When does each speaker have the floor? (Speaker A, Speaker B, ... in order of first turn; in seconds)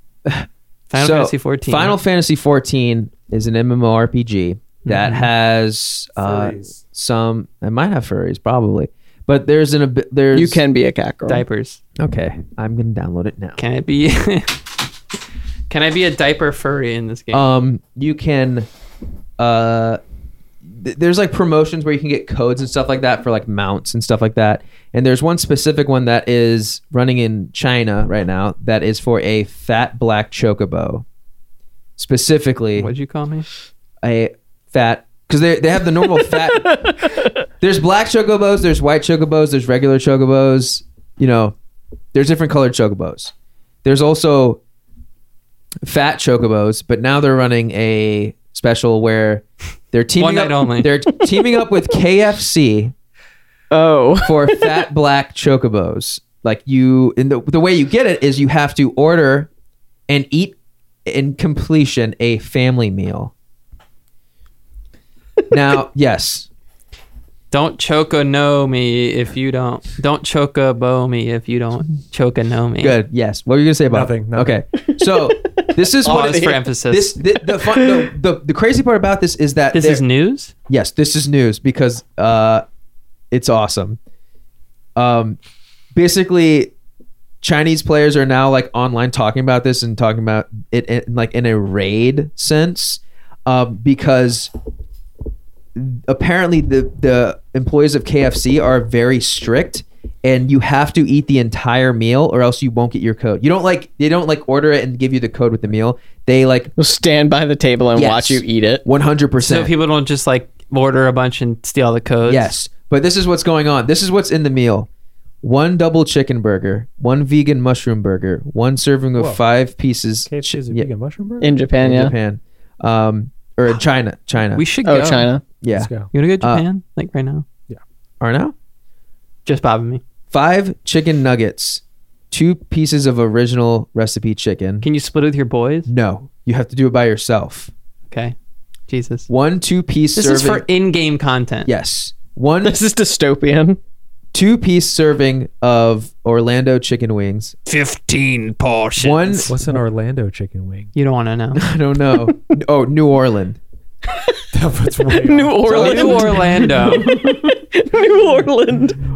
Speaker A: 0.2-10.6, 12.0-13.6, 17.3-18.7, 19.4-20.0, 20.6-31.0, 32.0-32.9, 34.0-36.9, 37.6-41.5, 42.1-43.3, 43.8-44.6, 45.8-52.9, 54.2-59.5, 60.1-63.3, 65.5-66.5, 72.8-80.0, 80.7-82.6, 83.3-84.0, 85.0-85.4, 85.9-86.7, 87.4-94.5, 95.7-106.7, 107.9-109.7, 112.2-114.9, 115.4-120.9, 121.8-124.6, 125.6-125.9, 128.2-128.5, 130.3-134.9, 135.8-137.7, 139.3-140.6, 141.6-142.8, 144.3-147.6, 149.0-149.6, 151.5-153.6, 155.7-157.5
Speaker B: 0.9-2.0, 4.8-5.3, 11.2-11.8, 13.6-14.6, 15.7-17.4, 32.7-33.5, 50.2-50.9, 67.5-73.0, 76.0-77.2, 79.7-80.5, 109.4-112.5, 124.5-125.3, 126.1-127.4, 129.4-130.0, 134.8-135.9, 138.1-138.3, 138.9-139.3, 140.1-141.7, 147.7-149.5, 150.9-151.6, 155.7-157.1
Speaker C: 6.2-6.8, 73.9-74.6, 119.2-119.4, 120.2-121.6, 125.8-126.1, 149.5-150.9, 154.5-155.8
Speaker D: 10.3-11.4, 36.6-37.2, 53.7-54.7, 75.1-76.6, 77.5-78.1, 106.8-108.8, 121.4-122.1, 124.8-125.4, 142.6-143.8, 155.2-159.0